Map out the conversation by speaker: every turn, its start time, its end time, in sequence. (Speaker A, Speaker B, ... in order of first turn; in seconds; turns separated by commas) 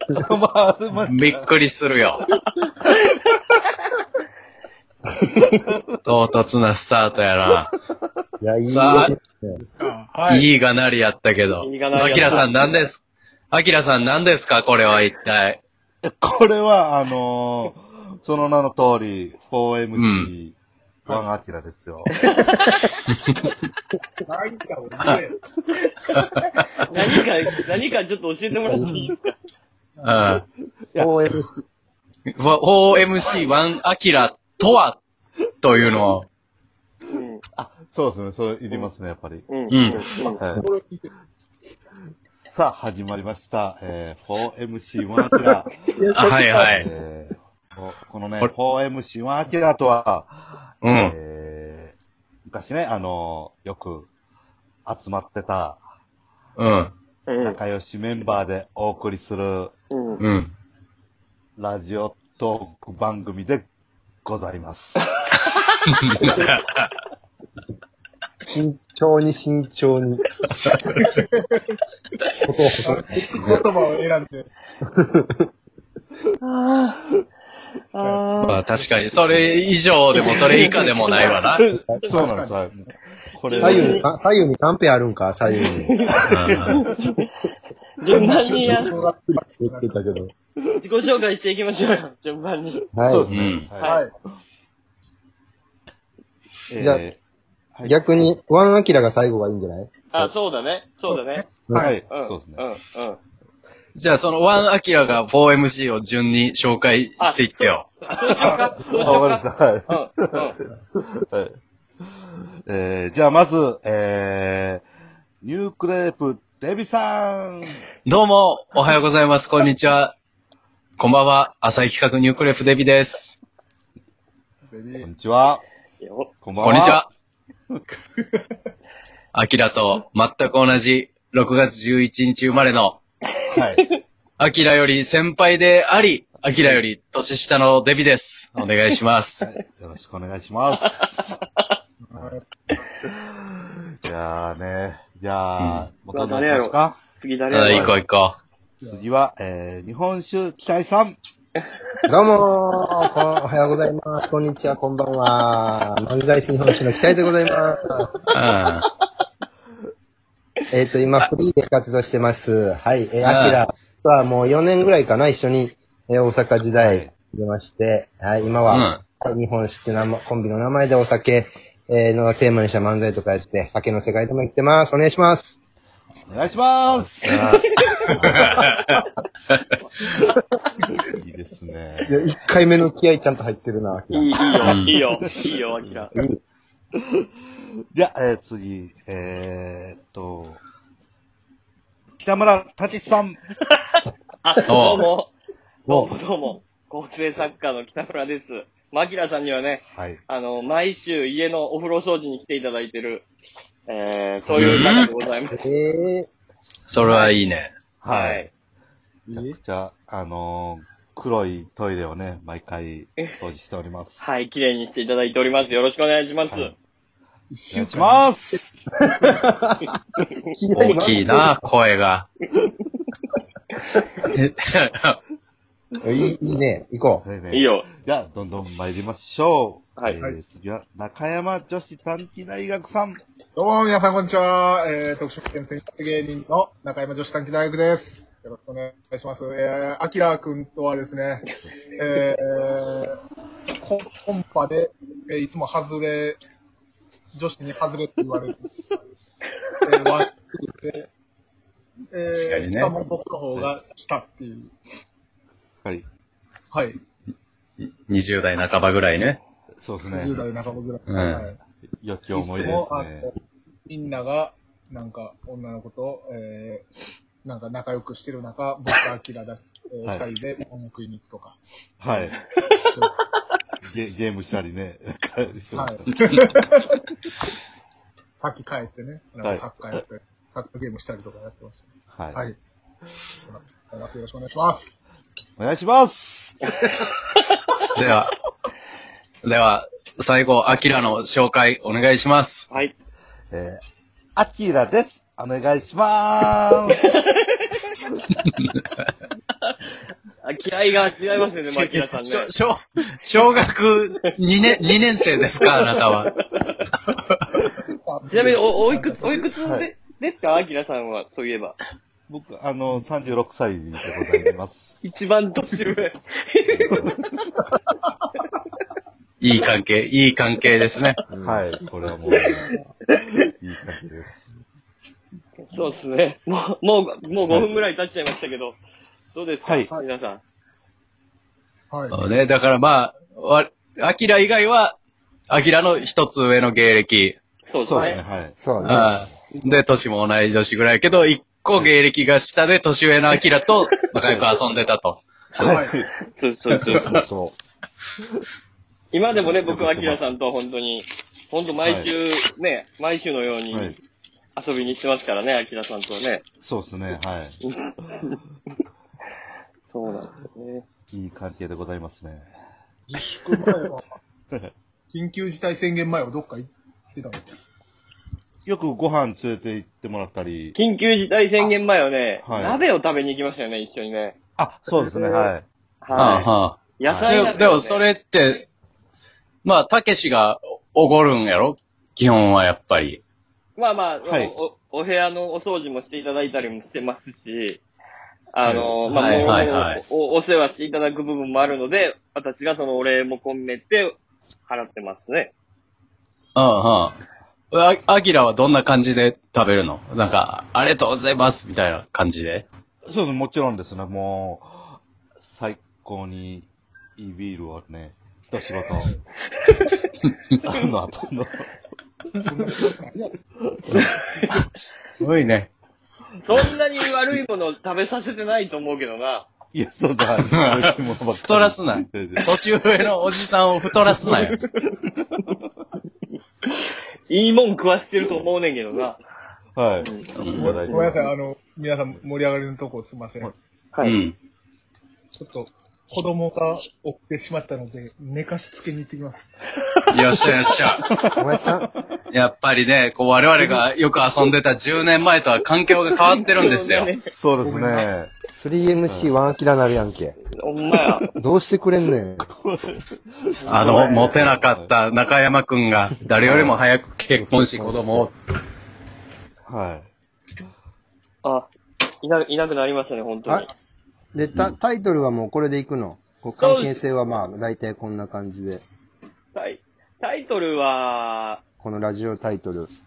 Speaker A: 0.1-1.4, Speaker B: 1.1-2.2, Speaker C: 2.8-3.3, Speaker B: 6.0-7.7, Speaker D: 8.4-9.6, Speaker B: 8.7-9.1, Speaker E: 9.6-10.5, Speaker B: 10.3-15.6, Speaker C: 11.6-12.8, Speaker A: 16.0-22.2, Speaker B: 19.9-20.3, Speaker C: 22.2-22.7, Speaker B: 23.1-23.5, Speaker E: 24.3-25.4, Speaker B: 26.1-26.8, Speaker C: 26.9-29.2, Speaker D: 28.7-29.1, Speaker B: 30.0-30.4, Speaker A: 30.9-31.2, Speaker D: 31.0-31.6, Speaker B: 32.4-35.0, Speaker B: 35.6-36.3, Speaker C: 37.1-37.4, Speaker A: 37.5-40.6, Speaker C: 39.5-40.4, Speaker B: 39.7-40.1, Speaker E: 40.0-41.1, Speaker A: 42.4-45.8, Speaker B: 46.1-46.9, Speaker A: 46.6-50.3, Speaker B: 50.8-51.2, Speaker A: 50.9-52.0, Speaker A: 52.5-54.1, Speaker A: 54.9-55.8, Speaker B: 56.6-56.9, Speaker C: 57.3-57.6, Speaker A: 57.4-59.7, Speaker C: 59.9-60.2, Speaker B: 60.2-60.5, Speaker A: 61.6-63.7, Speaker A: 64.2-65.1, Speaker B: 65.9-66.9, Speaker D: 68.5-70.3, Speaker B: 70.6-71.1, Speaker E: 71.0-71.7, Speaker D: 72.4-73.7, Speaker E: 72.8-74.5, Speaker D: 74.9-75.5, Speaker C: 76.4-77.1, Speaker C: 77.9-78.6, Speaker E: 78.0-79.3, Speaker B: 78.4-81.7, Speaker C: 80.1-81.4, Speaker A: 81.5-82.8, Speaker E: 82.0-82.9, Speaker A: 83.3-84.0, Speaker C: 83.5-84.1, Speaker D: 83.6-86.0, Speaker C: 85.6-86.3, Speaker B: 86.3-86.8, Speaker A: 86.5-86.8, Speaker C: 86.8-87.1, Speaker C: 88.0-89.0, Speaker E: 88.1-90.0, Speaker D: 88.3-90.3, Speaker C: 90.8-92.9, Speaker D: 93.0-93.3, Speaker A: 93.0-94.0, Speaker B: 93.3-93.7, Speaker E: 93.8-94.1, Speaker A: 96.7-97.2, Speaker A: 97.7-98.0, Speaker D: 97.8-100.3, Speaker C: 100.1-101.5, Speaker E: 101.1-101.9, Speaker D: 101.7-101.9, Speaker A: 101.8-102.6, Speaker C: 102.1-103.2, Speaker B: 104.0-107.9, Speaker C: 107.2-110.6, Speaker A: 108.4-110.4, Speaker A: 111.1-111.6, Speaker A: 112.7-114.8, Speaker A: 115.4-117.8, Speaker B: 118.0-120.1, Speaker B: 121.0-123.4, Speaker E: 124.7-125.1, Speaker A: 125.0-125.6, Speaker C: 126.0-126.3, Speaker A: 126.4-127.0, Speaker B: 126.6-127.1, Speaker B: 129.3-133.0, Speaker A: 133.5-133.8, Speaker C: 133.8-134.0, Speaker B: 134.4-139.4, Speaker A: 136.4-136.8, Speaker A: 139.4-141.2, Speaker C: 141.0-141.7, Speaker E: 142.0-142.4, Speaker A: 143.0-147.0, Speaker B: 145.6-145.8, Speaker C: 146.1-147.9, Speaker B: 147.5-148.4, Speaker A: 148.8-151.2, Speaker D: 152.1-158.2, Speaker B: 158.3-158.9, Speaker D: 160.7-175.6, Speaker B: 163.2-163.6, Speaker A: 166.8-167.1, Speaker B: 168.7-169.0, Speaker A: 176.3-178.7, Speaker B: 176.5-180.1, Speaker A: 181.0-182.1, Speaker D: 182.1-184.7, Speaker C: 184.1-186.1, Speaker B: 184.6-185.0, Speaker D: 186.1-186.4, Speaker A: 187.0-187.2, Speaker A: 187.9-190.6, Speaker A: 192.2-193.4, Speaker C: 194.4-195.3, Speaker B: 194.7-195.1, Speaker D: 195.9-196.1, Speaker C: 195.9-203.3, Speaker A: 199.9-200.2, Speaker C: 203.9-205.6, Speaker B: 204.6-205.1, Speaker D: 205.5-206.3, Speaker B: 206.9-207.7, Speaker C: 207.0-207.3, Speaker A: 208.0-208.4, Speaker C: 208.1-208.5, Speaker E: 209.3-209.6, Speaker A: 209.3-214.3, Speaker C: 214.2-216.7, Speaker E: 217.5-218.6, Speaker A: 217.7-218.7, Speaker D: 219.2-219.9, Speaker D: 220.5-221.5, Speaker B: 220.7-222.3, Speaker B: 224.2-225.2, Speaker D: 226.0-227.2, Speaker A: 227.2-233.2, Speaker C: 227.5-227.9, Speaker E: 233.6-243.2, Speaker E: 243.8-246.4, Speaker E: 247.3-248.8, Speaker E: 249.8-251.1, Speaker E: 252.1-254.7, Speaker B: 252.3-252.9, Speaker E: 256.7-257.0, Speaker B: 258.1-259.4, Speaker A: 259.8-260.5, Speaker E: 260.0-261.6, Speaker B: 261.1-261.5, Speaker A: 262.0-263.3, Speaker E: 262.3-263.4, Speaker E: 263.9-266.9, Speaker E: 267.4-271.6, Speaker A: 270.0-270.3, Speaker A: 272.0-272.4, Speaker E: 272.2-273.1, Speaker A: 273.9-276.2, Speaker E: 275.7-277.1, Speaker E: 278.4-282.6, Speaker A: 279.4-280.0, Speaker A: 282.1-282.4, Speaker E: 283.3-284.9, Speaker A: 285.6-286.7, Speaker B: 287.9-288.4, Speaker B: 289.4-292.7, Speaker A: 293.5-293.8, Speaker A: 294.4-297.0, Speaker C: 296.9-297.9, Speaker B: 298.4-298.7, Speaker C: 300.4-302.5, Speaker B: 301.6-306.3, Speaker C: 305.6-306.8, Speaker B: 307.1-307.5, Speaker E: 307.6-309.5, Speaker C: 308.3-311.8, Speaker A: 312.3-314.9, Speaker C: 315.0-317.4, Speaker A: 316.7-317.1, Speaker E: 317.7-318.1, Speaker B: 319.4-321.2, Speaker D: 321.3-321.8, Speaker A: 321.4-322.6, Speaker E: 321.8-322.8, Speaker C: 322.3-322.6, Speaker A: 323.6-324.4, Speaker C: 325.7-328.8, Speaker C: 329.3-330.4, Speaker A: 329.6-329.9, Speaker E: 331.9-332.2, Speaker B: 332.1-335.0, Speaker B: 335.5-337.4, Speaker C: 337.7-338.2, Speaker A: 337.9-338.6, Speaker D: 338.6-339.2, Speaker B: 338.8-345.2, Speaker A: 344.2-344.5, Speaker A: 345.6-346.1, Speaker E: 345.6-346.0, Speaker C: 346.4-347.2, Speaker D: 347.1-347.6, Speaker C: 349.1-354.0, Speaker A: 349.4-350.3, Speaker A: 351.9-352.1, Speaker A: 353.7-354.0, Speaker C: 354.6-356.4, Speaker A: 356.6-357.6, Speaker C: 357.6-358.4, Speaker C: 359.9-360.9, Speaker A: 361.1-362.5, Speaker E: 363.1-364.1, Speaker E: 365.1-367.6, Speaker A: 368.7-370.8, Speaker C: 370.8-374.4, Speaker A: 372.4-372.8, Speaker A: 374.6-376.5, Speaker E: 375.0-375.4, Speaker C: 376.0-376.5, Speaker B: 376.1-378.7, Speaker C: 377.0-378.0, Speaker A: 377.1-377.4, Speaker B: 379.6-383.2, Speaker C: 383.8-387.8, Speaker A: 384.2-384.5, Speaker C: 388.5-395.5, Speaker A: 388.6-389.5, Speaker B: 389.1-390.0, Speaker B: 396.6-397.2, Speaker B: 397.7-402.7, Speaker A: 403.1-409.1, Speaker A: 410.6-411.6, Speaker E: 412.4-413.3, Speaker B: 414.7-415.7, Speaker C: 416.4-419.5, Speaker A: 419.7-422.5, Speaker B: 420.4-424.6, Speaker C: 424.2-424.6, Speaker C: 427.3-429.2, Speaker A: 429.8-431.3, Speaker C: 430.0-431.1, Speaker B: 430.4-430.7, Speaker E: 430.6-433.5, Speaker B: 434.0-434.4, Speaker E: 435.4-439.5, Speaker B: 440.1-441.1, Speaker D: 441.4-441.9, Speaker B: 442.3-447.1, Speaker C: 446.2-447.3, Speaker A: 447.3-448.3, Speaker E: 447.6-448.1, Speaker D: 448.6-450.4, Speaker A: 449.1-449.3, Speaker C: 450.6-451.3, Speaker D: 451.4-452.5, Speaker A: 452.6-454.9, Speaker B: 453.7-458.4, Speaker C: 453.7-454.2, Speaker A: 456.4-456.8, Speaker D: 457.3-458.3, Speaker A: 459.7-460.1, Speaker C: 461.4-461.7, Speaker C: 462.2-463.7, Speaker D: 464.4-468.8, Speaker C: 466.6-467.0, Speaker C: 469.5-471.6, Speaker D: 471.8-472.9